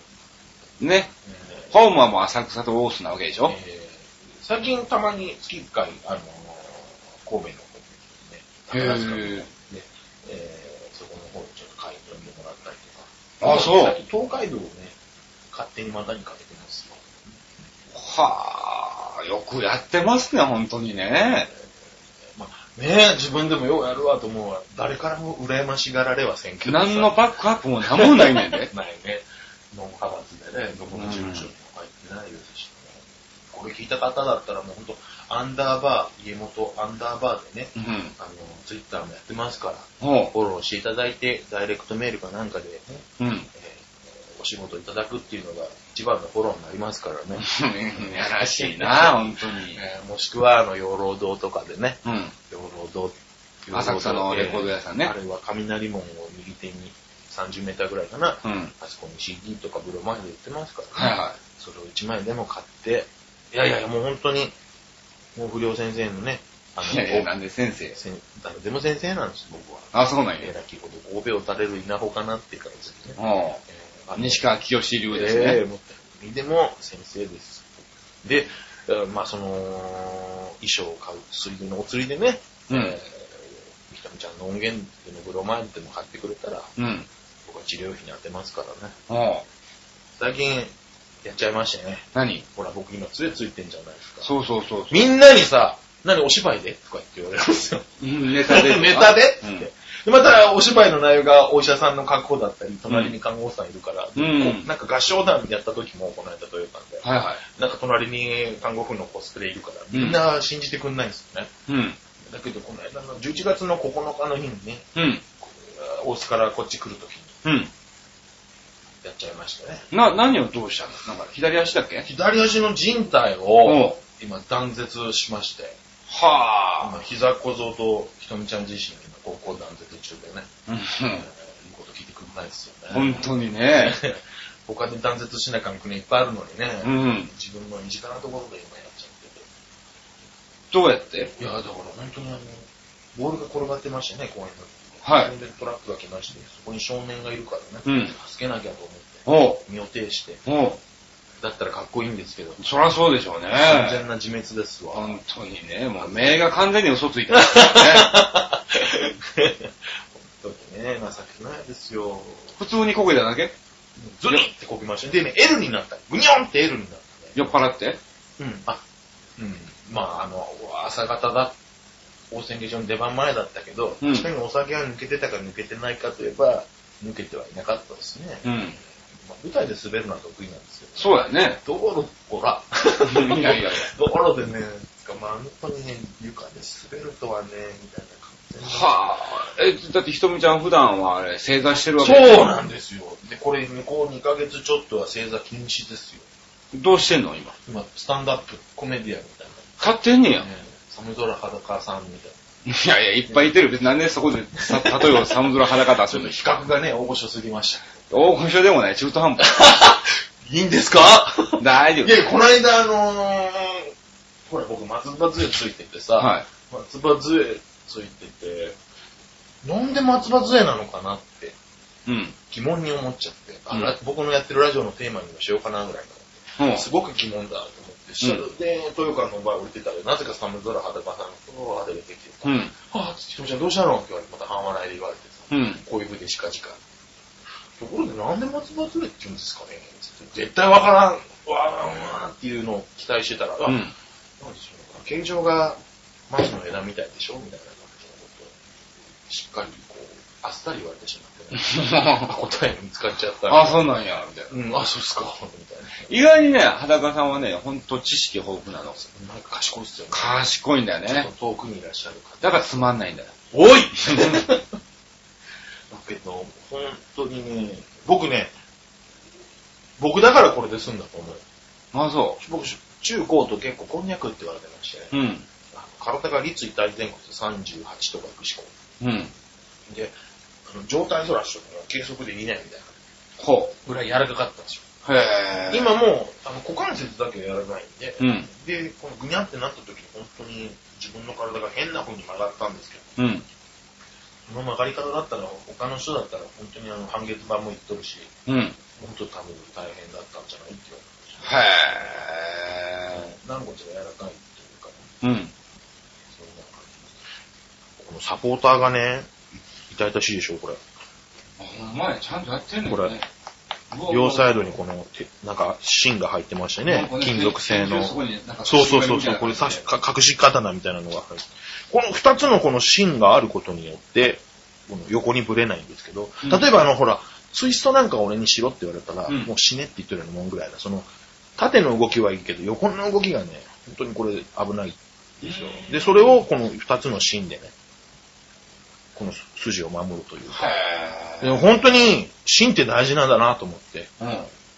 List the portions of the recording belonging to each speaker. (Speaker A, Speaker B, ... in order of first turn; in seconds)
Speaker A: 0.8-1.1, 1.7-3.6, 8.7-9.5, 13.4-14.0, 17.9-21.5, 26.6-28.7, 30.9-31.5, 37.8-38.1, 40.0-40.3, 43.2-43.5, 47.4-49.8, 52.0-52.3, 53.7-55.1, 58.4-58.7, 61.0-61.4, 66.8-68.0, 69.9-70.5, 73.2-73.6, 74.2-75.6, 82.7-83.0, 86.8-87.1, 89.1-89.5, 92.2-92.5, 94.2-95.1, 98.0-99.7, 102.9-103.2, 104.2-104.7, 107.0-107.4, 109.9-110.2, 111.7-112.0, 115.0-115.2, 117.4-117.7, 119.9-122.1, 123.6-124.0, 126.1-127.0, 130.7-131.3, 132.9-134.0, 136.8-137.3, 140.7-141.3, 145.0-145.3, 147.8-148.2, 149.3-149.6, 150.5-150.8, 152.6-154.0, 154.9-158.2, 162.6-163.5, 167.3-168.0, 174.0-174.3, 178.4-178.8, 181.0-181.6, 183.0-183.9, 188.6-192.5, 196.7-197.6, 199.8-200.5, 202.7-206.4, 208.1-209.5, 211.6-212.2, 216.2-216.5, 222.1-222.4, 226.6-226.9, 232.4-232.7, 235.5-235.8, 243.7-243.9, 251.5-252.3, 253.5-254.5, 256.1-259.1, 260.1-261.3, 262.4-263.3, 264.0-264.5, 271.9-272.4, 275.1-275.5, 279.0-279.3, 283.4-283.8, 285.1-285.9, 288.2-288.5, 293.2-293.4, 298.5-298.8, 301.4-303.2, 305.2-305.5, 311.6-313.3, 313.9-314.8, 316.9-319.9, 335.4-336.4, 340.5-341.6, 344.2-344.5
Speaker B: 1.3-1.7, 3.5-15.0, 15.5-17.4, 22.3-27.2, 27.8-64.5, 65.3-67.3, 68.0-73.2, 73.7-74.4, 75.1-77.7, 78.2-86.7, 87.5-89.0, 90.2-90.7, 91.2-94.3, 94.9-111.5, 112.2-114.9, 115.4-117.4, 119.0-119.9, 122.0-125.8, 126.8-130.5, 131.2-139.5, 141.4-150.4, 151.4-152.6, 153.5-155.2, 156.0-156.5, 157.3-162.5, 164.0-167.5, 168.4-168.8, 169.4-171.6, 172.3-189.0, 192.0-196.2, 197.7-199.7, 200.4-202.4, 204.6-208.1, 209.4-213.9, 214.5-218.8, 219.6-221.6, 222.5-236.8, 237.8-243.8, 244.4-248.6, 249.3-253.8, 254.5-256.1, 259.1-260.4, 261.1-262.6, 263.5-264.7, 265.9-268.5, 270.0-271.4, 272.4-275.1, 275.7-278.7, 279.9-280.1, 280.7-282.9, 283.9-284.9, 285.7-293.2, 294.5-298.3, 299.0-301.6, 303.1-305.1, 306.3-307.2, 308.0-309.3, 309.9-310.8, 312.9-313.1, 314.1-337.7, 339.1-340.7, 341.4-344.1